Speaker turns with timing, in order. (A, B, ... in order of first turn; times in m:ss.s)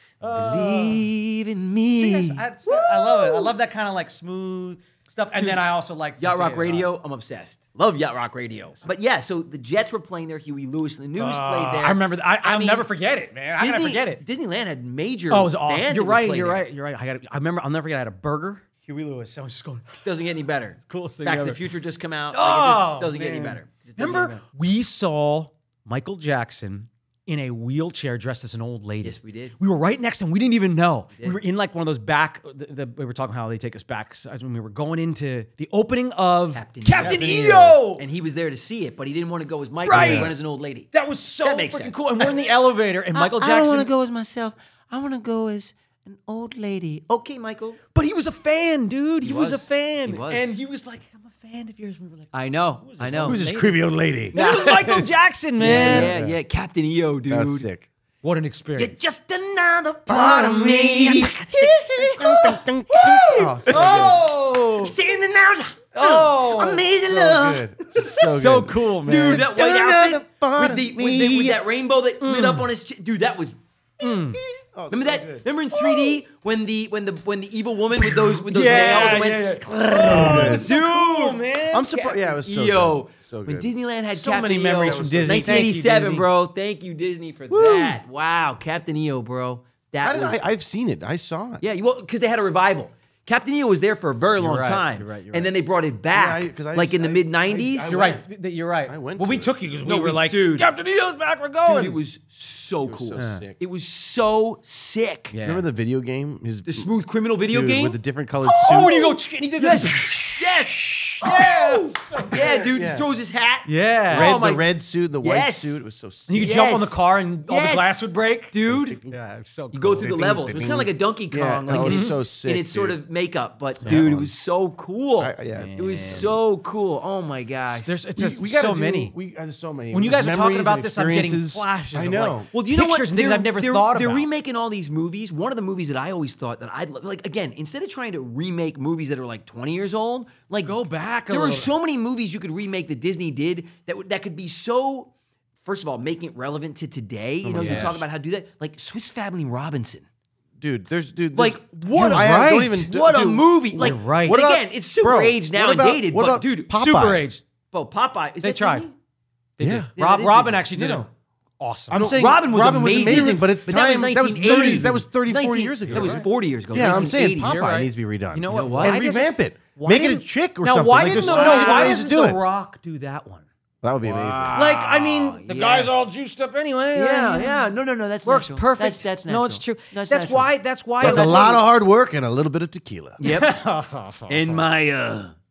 0:00.2-0:01.1 A
0:00.3-0:03.5 B
0:02.0-0:06.9 A
0:05.4-0:05.6 B
0:06.2-0:12.9 B
0:11.2-0:14.2 A
0:13.6-0:16.6 B
0:15.3-0:20.0 A
0:20.0-0:24.4 B
0:20.9-0:21.6 A
0:22.3-0:38.0 A
0:29.0-0:29.6 B
0:36.5-0:40.9 B
0:39.8-0:40.4 A
0:39.9-0:40.4 C
0:40.9-0:43.9 A
0:41.4-0:42.6 B
0:43.1-0:47.8 B
0:47.9-0:56.1 A
0:49.2-0:50.5 B
0:52.3-0:53.4 B
0:53.2-0:54.4 C
0:54.3-0:55.1 B
0:55.6-0:56.4 C
0:55.6-0:57.7 B
0:57.3-0:57.9 C
0:58.2-0:59.0 A
0:58.8-1:08.2 B
1:00.1-1:04.2 C
1:01.4-1:02.3 A
1:03.0-1:04.9 A
1:05.9-1:06.8 A
1:06.9-1:11.6 C
1:07.9-1:09.5 A
1:09.1-1:13.6 B
1:12.2-1:12.7 A
1:14.0-1:14.4 A
1:14.7-1:15.5 C
1:14.9-1:30.5 B
1:18.0-1:21.9 A
1:20.0-1:20.7 C
1:21.7-1:23.7 C
1:24.1-1:26.3 A
1:24.8-1:25.7 C
1:27.5-1:27.9 A
1:30.0-1:31.6 C
1:31.6-1:38.0 B
1:34.4-1:35.4 A
1:36.1-1:38.2 C
1:37.8-1:42.0 A
1:38.9-1:39.5 C
1:39.8-1:40.7 B
1:41.6-1:45.3 B
1:42.8-1:43.6 C
1:43.2-1:43.4 A
1:45.3-1:45.6 A
1:45.4-1:46.9 C
1:46.6-1:54.6 B
1:47.5-1:49.1 C
1:48.6-1:52.6 A
1:52.3-1:53.1 C
1:53.6-1:54.6 A
1:54.1-1:56.6 C
1:55.2-1:55.8 B
1:56.3-1:58.6 A
1:56.4-1:59.0 B
1:58.7-1:59.1 C
1:59.1-2:00.1 A
1:59.7-2:08.0 B
2:00.0-2:03.0 C
2:01.7-2:02.1 A
2:03.8-2:04.1 A
2:03.9-2:04.3 C
2:05.2-2:06.3 C
2:05.6-2:06.3 A
2:07.8-2:09.1 A
2:08.2-2:12.5 C
2:09.9-2:14.3 A
2:12.5-2:30.0 B
2:20.6-2:21.7 A
2:27.4-2:28.0 C
2:27.6-2:28.0 A
2:30.6-2:33.4 C
2:31.3-2:36.7 B
2:31.9-2:32.9 A
2:33.7-2:34.6 A
2:35.0-2:37.2 C
2:36.7-2:37.4 A
2:37.7-2:39.0 B
2:38.4-2:38.9 A
2:39.6-2:41.1 A
2:39.6-2:39.9 C
2:40.0-2:41.0 B
2:41.6-2:42.1 A
2:41.9-2:47.6 B
2:41.9-2:52.4 C
2:43.0-2:43.5 A
2:44.4-2:44.8 A
2:45.9-2:46.2 A
2:47.3-2:53.4 A
2:48.5-2:49.0 B
2:51.1-2:52.0 B
2:53.8-2:54.7 C
2:54.0-2:55.9 B
2:54.5-2:57.7 A
2:57.0-3:01.5 B
2:58.2-3:01.6 A
3:01.0-3:03.2 C
3:03.2-3:03.5 B
3:03.2-3:04.7 A
3:04.3-3:05.3 B